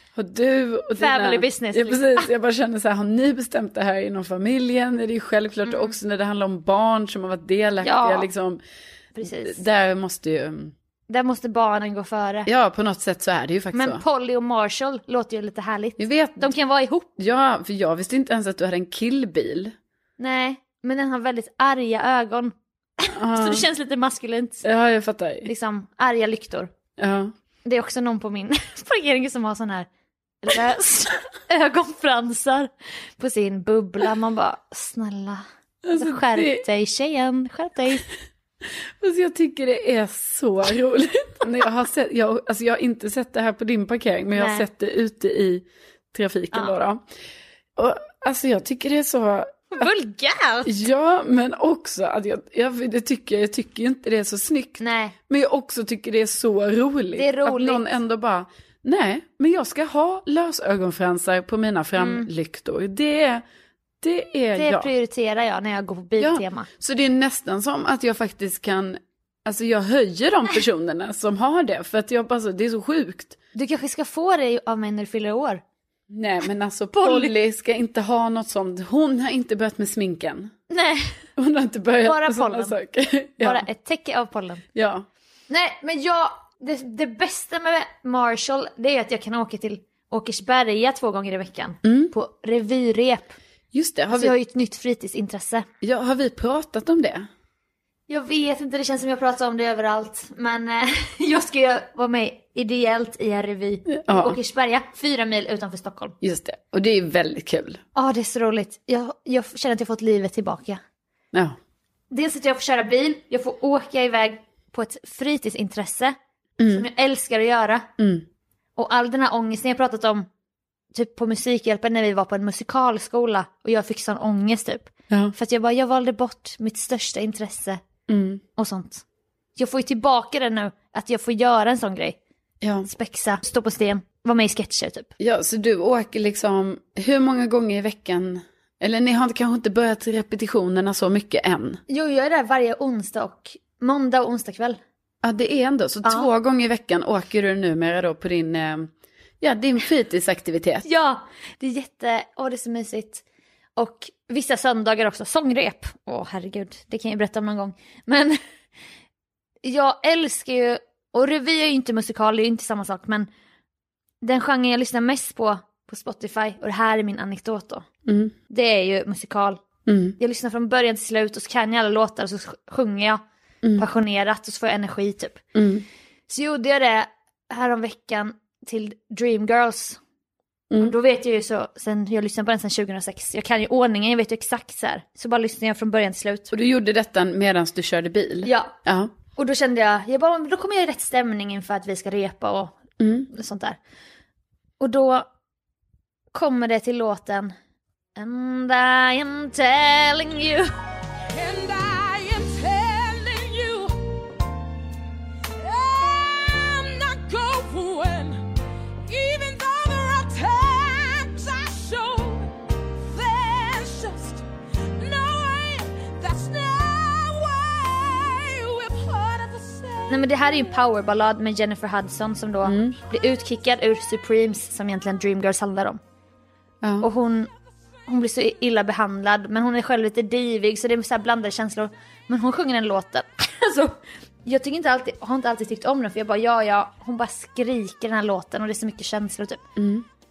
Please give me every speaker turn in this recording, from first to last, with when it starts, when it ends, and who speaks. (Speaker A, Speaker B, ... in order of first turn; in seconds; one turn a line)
Speaker A: 0.1-8.6
Speaker B: 0.9-2.2
Speaker B: 7.8-8.3
Speaker B: 9.2-9.6
Speaker A: 9.2-10.7
Speaker B: 11.1-12.5
Speaker A: 12.4-14.0
Speaker B: 13.7-17.1
Speaker A: 16.0-16.5
Speaker A: 17.2-19.7
Speaker B: 20.2-24.6
Speaker A: 23.1-23.7
Speaker A: 24.6-25.5
Speaker B: 25.4-26.7
Speaker A: 27.0-27.3
Speaker B: 27.6-29.9
Speaker B: 30.4-38.1
Speaker A: 35.8-36.6
Speaker A: 39.0-47.0
Speaker B: 44.3-44.6
Speaker A: 47.8-49.9
Speaker B: 49.7-50.8
Speaker A: 50.6-63.4
Speaker B: 54.8-55.1
Speaker B: 57.1-57.9
Speaker B: 62.0-62.3
Speaker A: 64.0-64.9
Speaker B: 64.5-66.7
Speaker A: 66.2-73.4
Speaker B: 73.5-75.6
Speaker A: 76.1-80.5
Speaker B: 77.0-77.3
Speaker B: 80.7-81.2
Speaker A: 81.4-83.7
Speaker B: 82.0-82.7
Speaker B: 83.4-84.6
Speaker A: 84.7-85.0
Speaker B: 85.5-93.3
Speaker A: 91.8-92.1
Speaker A: 93.7-94.3
Speaker B: 94.1-95.7
Speaker A: 95.8-97.3
Speaker B: 98.1-106.1
Speaker A: 103.9-104.4
Speaker A: 106.2-107.8
Speaker B: 107.9-110.8
Speaker B: 112.1-116.1
Speaker A: 116.6-116.9
Speaker B: 116.7-117.9
Speaker A: 118.0-118.2
Speaker B: 118.8-120.3
Speaker B: 120.9-127.8
Speaker A: 128.1-128.4
Speaker B: 128.6-129.0
Speaker B: 129.6-132.2
Speaker A: 132.6-132.9
Speaker B: 132.8-135.1
Speaker A: 135.2-141.8
Speaker B: 141.9-144.8
Speaker A: 145.2-150.8
Speaker B: 150.8-153.2
Speaker B: 153.8-158.4
Speaker B: 159.6-163.3
Speaker B: 164.2-167.8
Speaker A: 168.1-168.3
Speaker B: 168.5-169.6
Speaker A: 169.8-170.2
Speaker B: 170.2-173.2
Speaker B: 173.8-175.4
Speaker A: 175.5-175.8
Speaker B: 176.3-180.0
Speaker B: 180.8-186.5
Speaker A: 186.5-189.1
Speaker B: 188.4-188.8
Speaker B: 189.3-193.8
Speaker A: 193.0-193.3
Speaker B: 194.8-195.3
Speaker B: 196.3-197.5
Speaker B: 198.2-200.7
Speaker C: 201.3-204.0
Speaker C: 205.6-208.5
Speaker C: 209.1-220.6
Speaker B: 220.1-226.0
Speaker A: 222.6-223.0
Speaker A: 226.8-227.1
Speaker B: 227.0-227.5
Speaker B: 228.1-239.6
Speaker A: 239.8-240.1